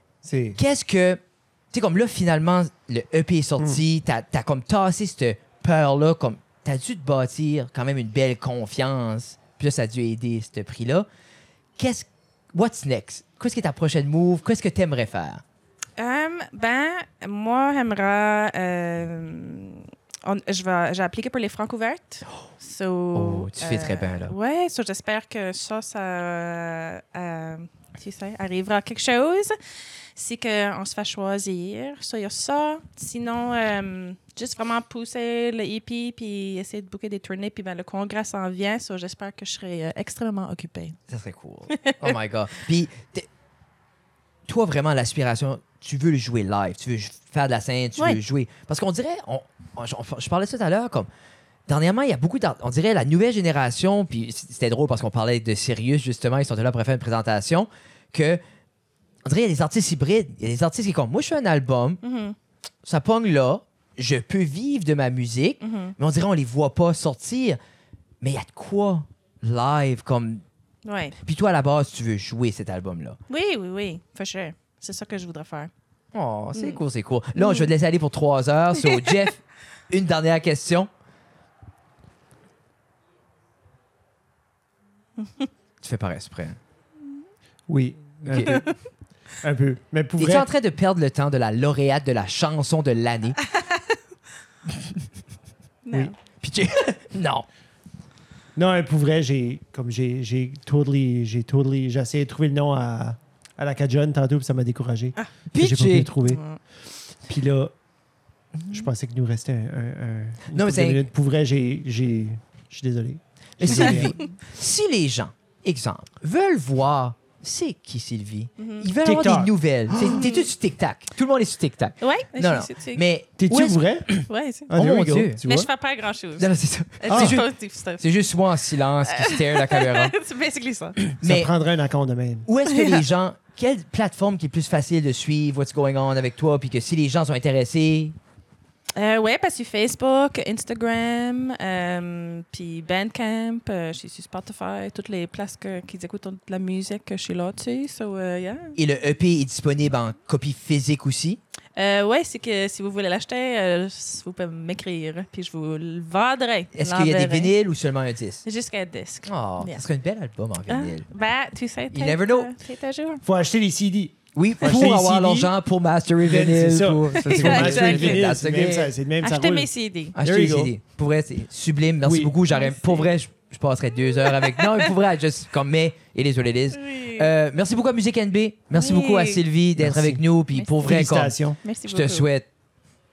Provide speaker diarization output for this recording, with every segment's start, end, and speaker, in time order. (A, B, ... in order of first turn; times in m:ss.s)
0:00.2-0:00.6 A
0:00.6-0:01.2 B
0:01.7-0:11.1 B
0:11.8-0:15.4 B
0:16.0-0:29.5 C
0:23.2-0:24.4 B
0:30.2-0:41.0 C
0:41.1-0:43.3 B
0:41.7-0:42.1 C
0:44.5-0:51.1 B
0:51.7-0:58.4 B
0:59.2-1:02.0 B
1:02.0-1:02.4 C
1:02.8-1:07.6 B
1:05.6-1:06.0 C
1:08.2-1:10.4 B
1:10.8-1:11.2 C
1:11.2-1:13.2 B
1:13.3-1:15.7 C
1:16.1-1:20.9 B
1:16.5-1:16.8 C
1:17.4-1:17.7 C
1:18.8-1:19.1 C
1:25.8-1:26.6 B
1:27.7-1:28.6 A
1:28.3-1:28.6 B
1:28.4-1:28.7 C
1:29.4-1:30.5 A
1:30.2-1:33.4 B
1:35.8-1:36.1 C
1:36.4-1:37.5 B
1:38.6-1:46.4 A
1:45.5-1:46.1 B
1:46.2-1:46.6 C
1:47.3-1:47.7 A
1:48.6-1:48.9 B
1:48.7-1:54.2 A
1:50.5-1:51.1 B
1:53.6-2:05.4 B
1:53.8-1:54.3 C
1:58.6-1:58.9 C
1:59.0-2:00.3 A
2:00.0-2:00.5 C
2:02.0-2:03.0 C
2:03.4-2:04.2 A
2:04.3-2:04.7 C
2:04.7-2:05.7 A
2:05.4-2:08.0 C
2:06.4-2:10.1 B
2:07.1-2:07.4 A
2:09.0-2:11.0 C
2:11.2-2:11.5 B
2:11.2-2:12.5 A
2:12.4-2:18.2 B
2:12.6-2:13.1 C
2:19.0-2:28.8 C
2:28.8-2:31.4 B
2:31.8-2:37.6 C
2:36.7-2:38.4 B
2:38.4-2:39.8 C
2:39.2-2:41.1 B
2:40.7-2:43.2 C
2:41.9-2:42.5 B
2:43.2-2:45.5 A
2:44.3-2:48.9 B
2:46.2-2:50.7 A
2:47.2-2:48.3 C
2:49.2-2:50.2 C
2:50.2-3:02.5 B
2:52.0-2:52.4 A
2:52.5-2:53.1 C
2:54.2-2:55.0 C
2:56.7-2:57.3 C
2:58.7-2:59.4 C
2:59.8-3:00.2 A
3:00.5-3:01.0 C
3:00.8-3:01.6 A
3:01.6-3:02.3 C